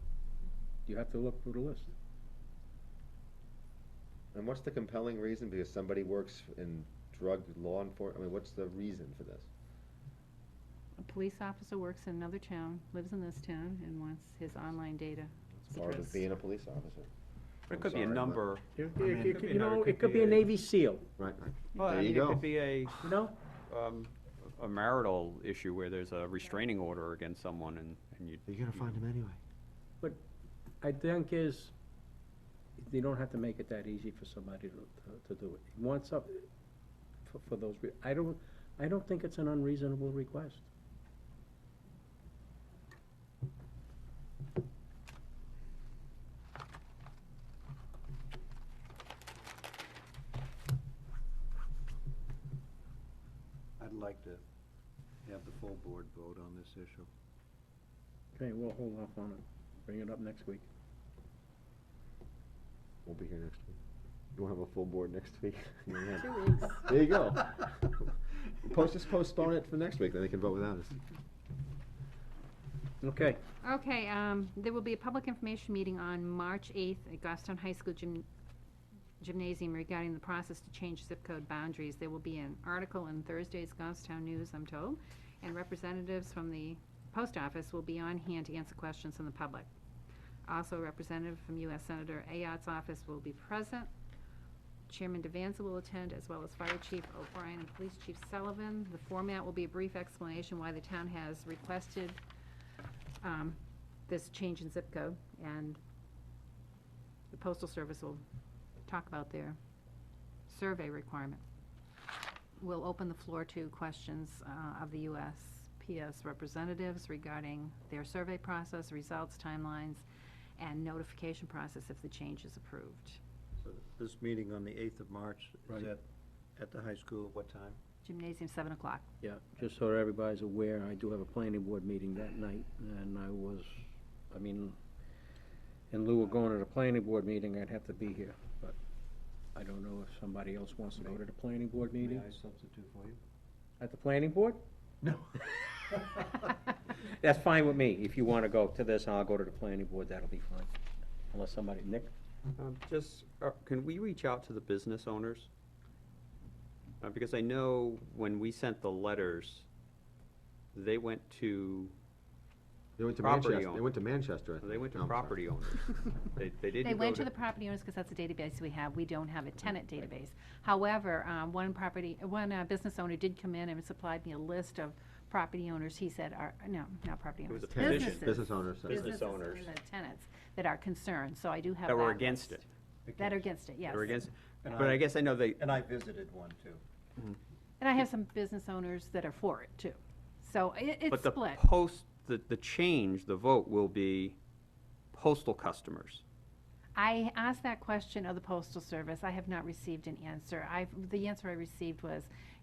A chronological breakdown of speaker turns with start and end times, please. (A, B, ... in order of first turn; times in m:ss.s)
0:00.8-0:01.9 A
0:04.3-0:09.5 B
0:11.0-0:16.2 C
0:15.7-0:17.1 B
0:17.7-0:20.4 D
0:17.7-0:18.4 B
0:18.8-0:21.1 A
0:19.0-0:19.4 B
0:21.2-0:22.4 B
0:21.7-0:23.0 D
0:23.0-0:23.3 A
0:23.7-0:29.0 D
0:28.5-0:29.4 B
0:30.8-0:31.7 A
0:32.8-0:36.4 A
0:37.2-0:40.7 A
0:53.8-0:54.4 E
0:55.2-0:57.1 E
0:58.4-1:00.6 A
1:03.0-1:03.8 B
1:04.4-1:08.1 B
1:06.1-1:07.0 C
1:08.6-1:11.0 B
1:13.0-1:13.4 A
1:13.6-1:18.3 C
1:19.2-1:29.7 C
1:30.5-1:33.9 C
1:34.9-1:42.2 C
1:43.2-1:45.8 C
1:47.3-1:48.2 C
1:48.8-1:49.6 C
1:50.5-1:51.4 C
1:52.6-2:00.0 C
2:00.6-2:03.2 C
2:03.6-2:06.0 E
2:06.6-2:07.8 E
2:08.0-2:09.0 C
2:09.2-2:13.8 A
2:14.3-2:14.8 A
2:15.9-2:18.8 A
2:19.5-2:22.3 A
2:22.0-2:23.2 E
2:23.8-2:24.6 A
2:27.0-2:30.7 A
2:31.3-2:32.1 A
2:32.6-2:35.5 D
2:37.0-2:39.7 D
2:40.7-2:41.9 D
2:43.0-2:45.4 B
2:43.2-2:43.8 D
2:44.6-2:47.3 D
2:46.8-3:02.6 C
2:57.5-2:58.3 D
2:57.7-2:59.2 B
2:58.8-2:59.7 D
3:01.8-3:02.6 D
3:03.0-3:03.5 E
3:03.2-3:04.2 C
3:03.9-3:05.6 D
3:04.6-3:05.0 E
3:05.6-3:06.8 E
3:07.8-3:11.6 C
3:11.1-3:14.4 D
3:15.1-3:16.2 D
3:17.0-3:22.3 C